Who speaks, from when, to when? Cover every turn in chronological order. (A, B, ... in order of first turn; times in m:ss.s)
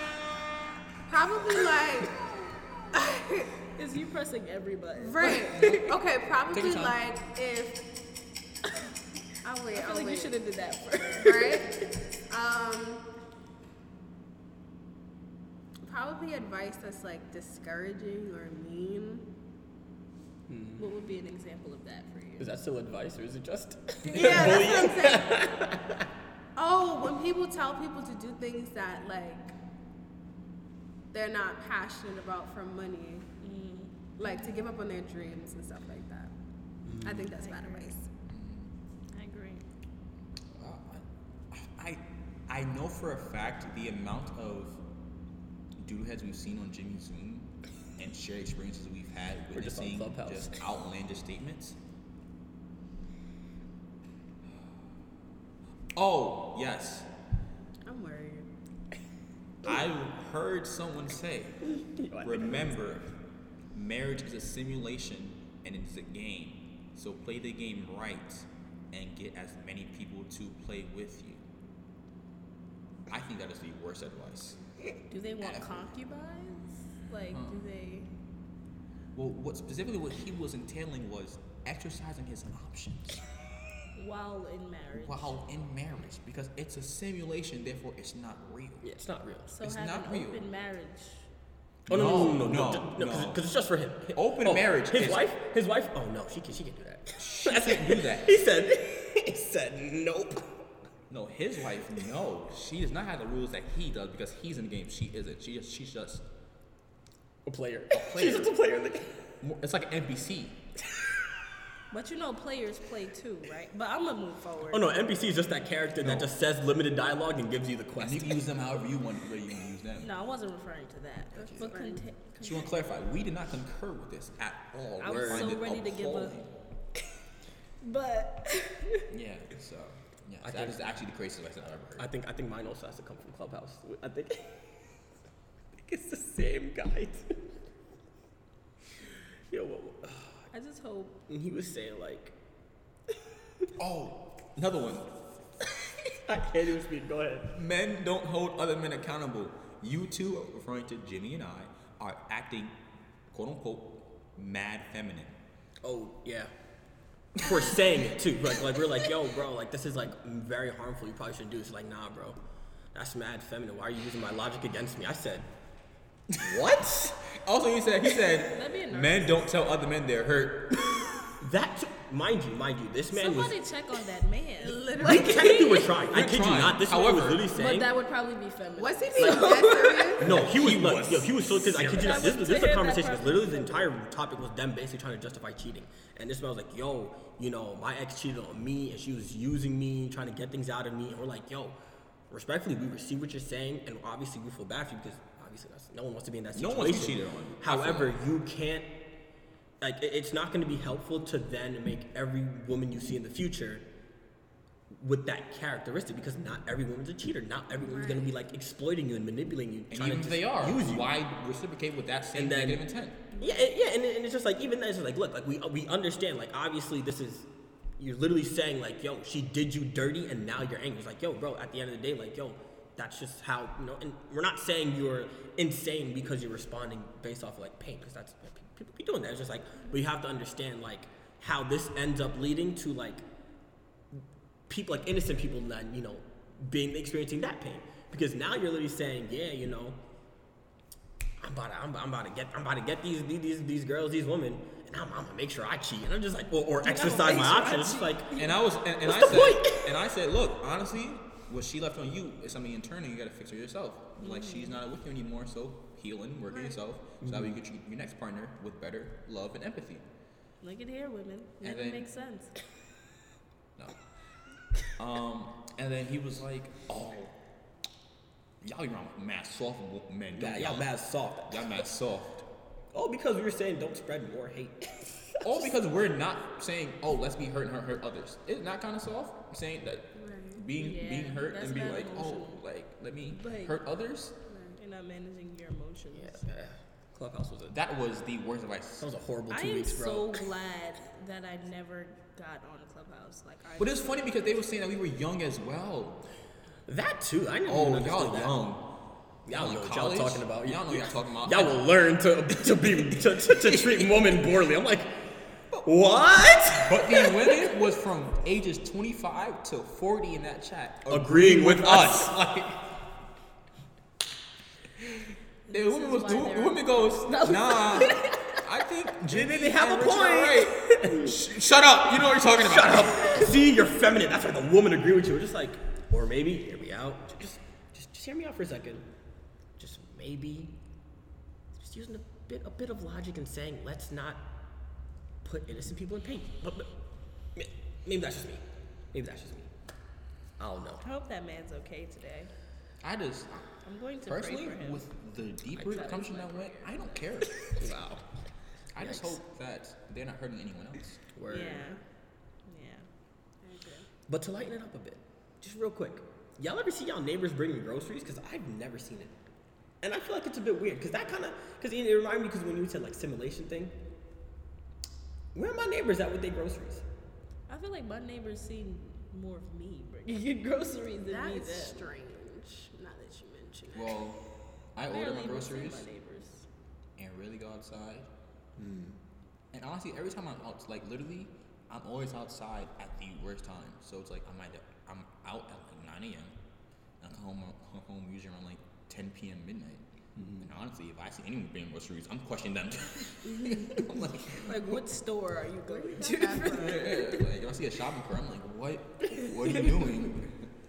0:01.1-0:02.2 A
0:02.9-0:03.5 A
0:03.7-0:05.8 B
0:05.0-0:07.8 A
0:05.3-0:05.9 C
0:06.5-0:07.0 C
0:09.4-0:10.4 A
0:09.7-0:11.8 B
0:11.2-0:13.0 A
0:15.8-0:19.3 A
0:20.5-0:20.8 D
0:20.8-0:22.5 B
0:22.4-0:26.1 D
0:24.0-0:25.5 A
0:24.2-0:24.6 B
0:26.6-0:29.5 A
0:31.1-0:33.2 A
0:33.4-0:34.6 B
0:34.2-0:36.3 A
0:36.8-0:37.3 D
0:37.0-0:38.0 A
0:37.4-0:37.9 B
0:38.3-0:38.7 C
0:39.1-0:39.7 B
0:40.5-0:44.8 C
0:45.8-0:51.8 C
0:49.5-0:50.6 D
0:55.9-0:57.1 C
0:57.8-0:58.5 A
0:59.6-1:03.0 C
1:02.0-1:02.8 D
1:03.7-1:11.4 C
1:13.1-1:14.6 C
1:15.1-1:18.1 B
1:15.4-1:15.9 C
1:17.3-1:17.6 C
1:19.1-1:23.2 C
1:24.0-1:25.4 B
1:25.0-1:28.8 C
1:28.8-1:29.5 D
1:29.5-1:31.3 B
1:29.6-1:30.4 C
1:31.8-1:33.4 C
1:31.9-1:40.6 D
1:34.1-1:35.3 C
1:37.2-1:38.4 C
1:41.1-1:46.2 C
1:47.4-1:49.3 D
1:47.9-1:48.5 C
1:49.4-1:50.6 C
1:51.9-1:54.9 B
1:54.7-1:58.5 D
1:56.0-1:56.3 C
1:58.0-2:00.1 C
2:00.0-2:02.7 B
2:01.4-2:01.7 D
2:01.4-2:02.0 A
2:02.4-2:06.5 C
2:05.0-2:06.4 B
2:05.0-2:05.6 D
2:07.8-2:09.0 B
2:09.1-2:12.1 C
2:10.4-2:10.8 D
2:12.0-2:15.0 D
2:15.7-2:17.4 D
2:19.0-2:20.5 D
2:20.5-2:21.2 B
2:21.3-2:22.3 D
2:23.8-2:25.1 C
2:26.2-2:27.5 D
2:27.5-2:32.8 C
2:33.3-2:35.4 C
2:35.8-2:36.5 D
2:37.4-2:42.4 D
2:42.9-2:45.5 D
2:46.3-2:51.1 C
2:46.4-2:47.2 D
2:48.4-2:49.4 B
2:51.4-2:53.6 D
2:53.1-2:55.9 B
2:54.6-2:55.9 A
2:55.0-2:57.9 D
2:56.0-2:57.5 C
2:57.5-3:00.2 B
2:58.8-3:00.3 A
2:59.2-3:11.8 D
3:00.2-3:02.3 C
3:01.6-3:03.9 B
3:12.3-3:18.9 D
3:16.5-3:18.2 C
3:19.8-3:23.8 D
3:24.9-3:31.1 D
3:27.8-3:28.3 A
3:29.9-3:33.2 C
3:32.3-3:53.2 D
3:54.1-4:00.0 D
4:01.4-4:08.3 D
4:06.8-4:08.6 B
4:08.4-4:20.0 C
4:09.0-4:10.0 D
4:14.2-4:14.8 B
4:16.5-4:16.8 A
4:17.2-4:17.6 D
4:20.6-4:22.5 B
4:21.6-4:22.1 C
4:24.9-4:27.3 C
4:28.6-4:30.9 C
4:30.3-4:31.8 D
4:31.5-4:32.4 C
4:32.9-4:35.7 D
4:35.4-4:44.4 C
4:40.1-4:40.6 A
4:40.8-4:42.6 B
4:43.3-4:43.8 B
4:44.5-4:44.8 A
4:44.8-4:46.4 B
4:46.1-4:47.8 D
4:47.7-4:49.1 C
4:49.0-4:50.4 D
4:49.5-4:54.1 B
4:53.8-4:56.2 C
4:56.8-4:58.6 D
4:57.7-4:58.9 C
4:59.4-5:07.6 D
4:59.5-5:01.9 C
5:02.5-5:04.3 C
5:06.7-5:12.8 C
5:11.1-5:12.4 D
5:15.7-5:18.6 B
5:15.7-5:23.4 C
5:19.3-5:21.4 D
5:22.6-5:29.0 D
5:29.8-5:30.8 D
5:31.7-5:34.5 D
5:35.4-5:36.9 D
5:37.5-5:39.7 D
5:40.6-5:41.0 D
5:41.0-5:42.5 B
5:43.0-5:43.7 C
5:43.8-5:45.0 B
5:44.2-5:47.8 C
5:45.8-5:47.1 B
5:47.8-5:48.2 D
5:48.9-5:51.2 C
5:49.0-5:49.4 D
5:51.3-5:51.9 D
5:51.5-5:52.0 B
5:52.6-5:53.1 B
5:53.6-5:54.1 A
5:54.3-5:59.3 D
6:00.0-6:04.0 D
6:05.5-6:07.0 D
6:07.7-6:12.0 B
6:11.3-6:14.2 A
6:13.9-6:16.0 C
6:15.0-6:16.6 B
6:17.2-6:18.3 C
6:18.8-6:19.2 D
6:19.7-6:26.5 C
6:27.2-6:35.0 C
6:30.4-6:30.6 D
6:33.4-6:37.4 B
6:35.9-6:37.2 A
6:36.6-6:40.7 C